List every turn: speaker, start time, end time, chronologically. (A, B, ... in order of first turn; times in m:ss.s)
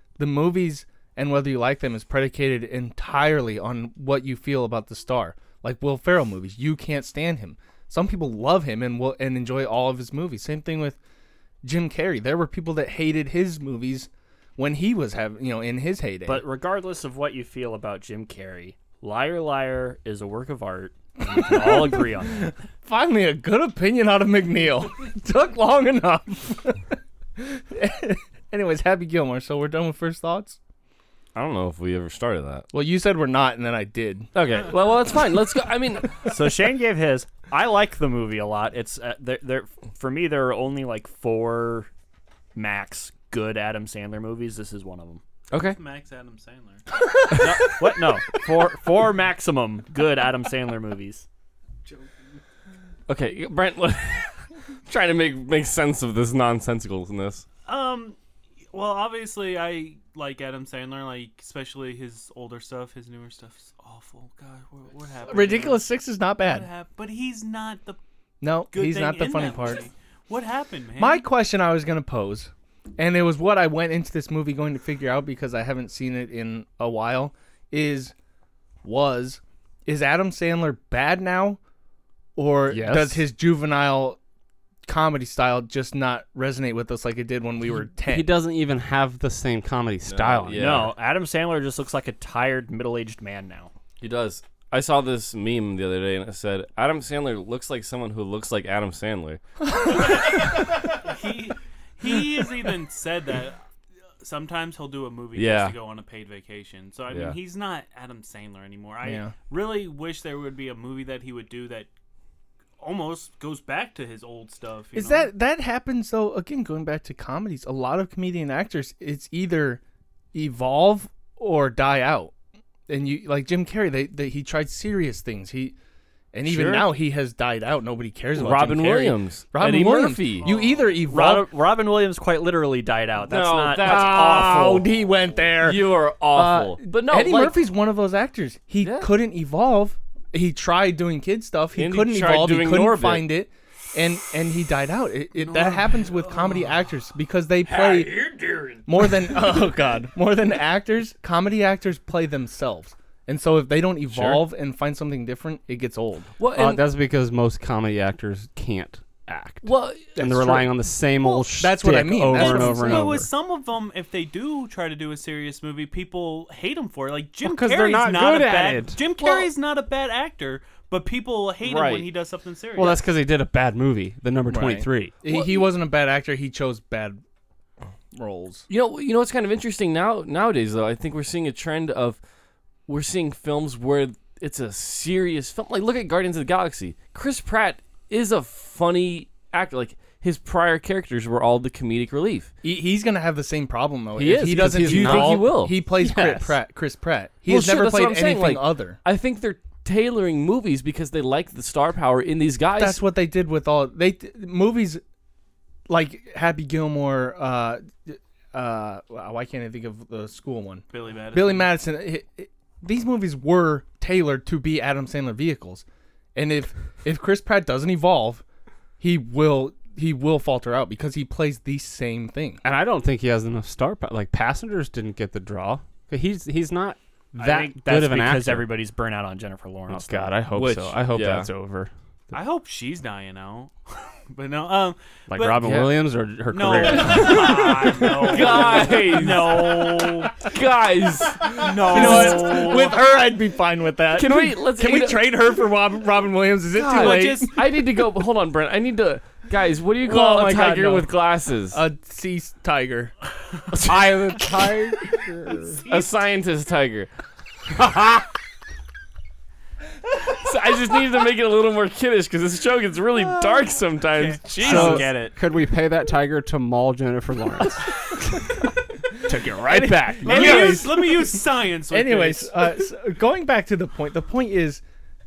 0:00.2-0:11.0 A
0:11.6-0:16.5 A
0:16.3-0:22.5 B
0:21.5-0:30.6 A
0:31.4-0:32.7 C
0:32.7-0:34.3 A
0:34.3-0:36.3 C
0:36.2-0:41.9 B
0:42.6-0:45.2 B
0:45.5-0:45.8 C
0:45.5-0:46.8 D
0:47.1-0:47.7 A
0:47.4-0:51.3 B
0:51.8-0:52.2 D
0:53.1-0:57.5 C
0:57.6-0:58.2 D
0:58.7-1:05.9 D
1:05.3-1:06.7 A
1:06.4-1:08.0 D
1:08.4-1:09.9 A
1:08.7-1:11.3 D
1:11.0-1:18.1 A
1:18.8-1:21.6 A
1:22.4-1:24.2 A
1:22.7-1:23.2 E
1:24.8-1:28.4 A
1:28.0-1:30.9 E
1:30.0-1:30.9 C
1:30.6-1:33.7 B
1:34.0-1:39.4 C
1:39.8-1:40.3 A
1:40.0-1:43.6 D
1:44.2-1:51.9 D
1:45.4-1:45.8 C
1:47.1-1:47.4 C
1:49.0-1:49.3 A
1:52.8-1:55.3 D
1:54.9-1:59.8 A
2:00.3-2:02.3 A
2:02.9-2:05.8 A
2:06.3-2:11.5 A
2:06.4-2:06.9 C
2:08.3-2:10.5 C
2:10.4-2:11.0 D
2:11.1-2:14.8 B
2:13.3-2:14.9 C
2:13.8-2:36.3 A
2:15.6-2:17.6 C
2:18.8-2:19.1 C
2:21.7-2:23.3 C
2:25.4-2:26.7 D
2:34.1-2:34.5 C
2:36.4-2:36.8 C
2:36.5-2:43.3 E
2:39.6-2:40.6 C
2:40.2-2:40.6 A
2:41.6-2:43.2 A
2:42.3-2:53.0 D
2:47.4-2:49.0 E
2:51.6-2:52.1 C
2:52.8-2:55.2 E
2:54.5-2:57.2 A
2:55.3-2:55.7 C
2:58.1-2:58.6 A
2:58.7-3:02.2 C
3:02.9-3:12.5 C
3:12.6-3:19.0 A
3:14.2-3:16.6 E
3:14.2-3:15.8 C
3:17.5-3:23.0 C
3:22.8-3:25.0 A
3:25.9-3:38.4 A
3:30.9-3:31.8 D
3:39.0-3:42.6 A
3:42.6-3:48.7 E
3:47.4-3:50.4 B
3:49.9-3:51.9 E
3:50.5-3:51.5 C
3:52.3-3:55.7 D
3:55.3-3:57.7 E
3:55.6-3:56.0 C
3:56.5-4:00.3 D
3:56.7-4:02.9 C
3:59.2-4:00.3 B
4:01.4-4:07.6 A
4:01.5-4:03.0 D
4:04.1-4:05.3 C
4:06.8-4:11.8 C
4:06.9-4:07.4 D
4:10.0-4:11.1 A
4:11.7-4:13.1 A
4:13.7-4:15.2 A
4:13.8-4:15.8 E
4:15.8-4:16.1 D
4:15.9-4:17.1 C
4:17.8-4:18.2 E
4:20.4-4:25.2 C
4:24.1-4:25.4 D
4:24.6-4:28.4 E
4:29.2-4:31.1 E
4:29.5-4:34.8 A
4:30.3-4:32.7 D